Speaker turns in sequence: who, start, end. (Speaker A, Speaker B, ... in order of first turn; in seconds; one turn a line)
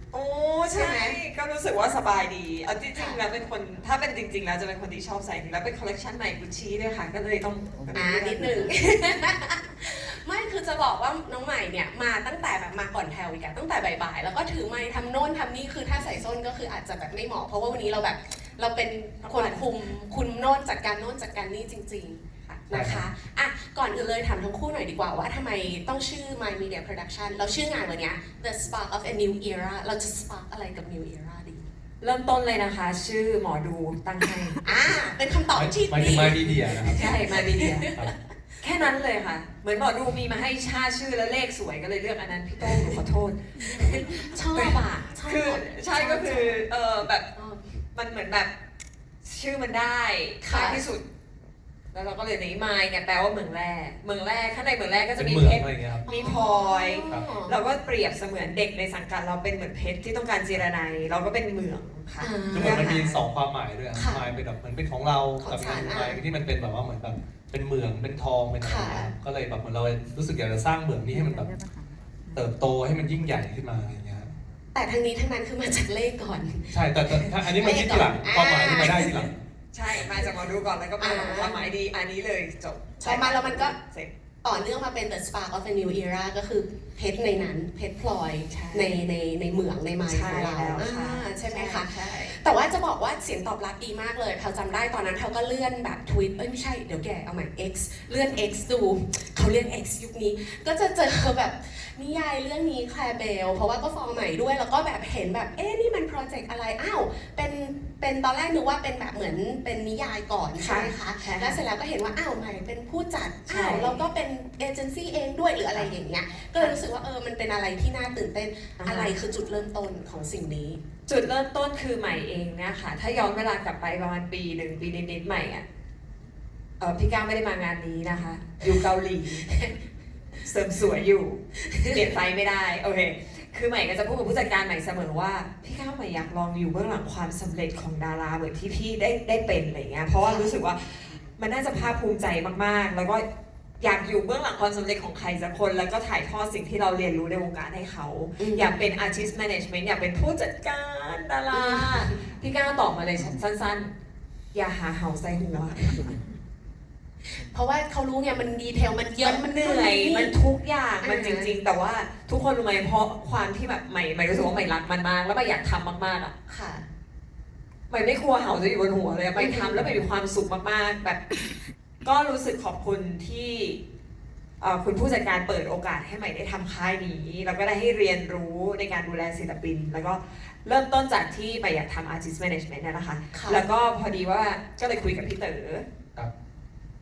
Speaker A: 0.1-8.7
Speaker B: 0.7-1.2
Speaker B: 2.9-3.2
Speaker B: 7.9-31.7
Speaker A: 19.2-19.6
Speaker C: 22.7-23.0
Speaker A: 32.0-34.6
Speaker B: 34.6-38.0
Speaker C: 35.5-37.1
Speaker A: 37.0-37.9
Speaker A: 38.6-47.3
Speaker B: 42.7-43.0
Speaker B: 43.6-46.6
Speaker B: 47.4-47.7
Speaker A: 48.0-48.5
Speaker A: 49.2-51.0
Speaker B: 50.4-50.9
Speaker A: 51.9-63.0
Speaker C: 55.2-56.1
Speaker B: 56.1-57.5
Speaker B: 62.2-63.2
Speaker C: 62.5-71.5
Speaker B: 63.9-64.3
Speaker B: 65.4-66.2
Speaker B: 68.6-69.1
Speaker C: 72.3-74.3
Speaker B: 74.7-79.3
Speaker C: 76.7-79.5
Speaker A: 79.7-84.1
Speaker B: 81.0-81.7
Speaker B: 83.0-83.8
Speaker B: 84.4-120.8
Speaker A: 88.5-89.0
Speaker A: 90.1-92.4
Speaker A: 110.6-111.6
Speaker A: 113.5-114.0
Speaker A: 118.8-119.1
Speaker A: 121.1-125.6
Speaker A: 126.8-129.5
Speaker B: 129.5-129.7
Speaker A: 130.4-143.2
Speaker B: 131.6-132.0
Speaker B: 140.2-140.5
Speaker A: 143.8-153.9
Speaker B: 148.4-148.8
Speaker B: 151.5-152.1
Speaker A: 154.5-156.1
Speaker B: 157.2-160.3
Speaker A: 159.2-166.3
Speaker B: 161.0-161.5
Speaker B: 166.5-166.9
Speaker A: 167.9-171.4
Speaker B: 169.4-169.9
Speaker A: 172.0-173.8
Speaker A: 174.6-185.8
Speaker B: 183.3-183.6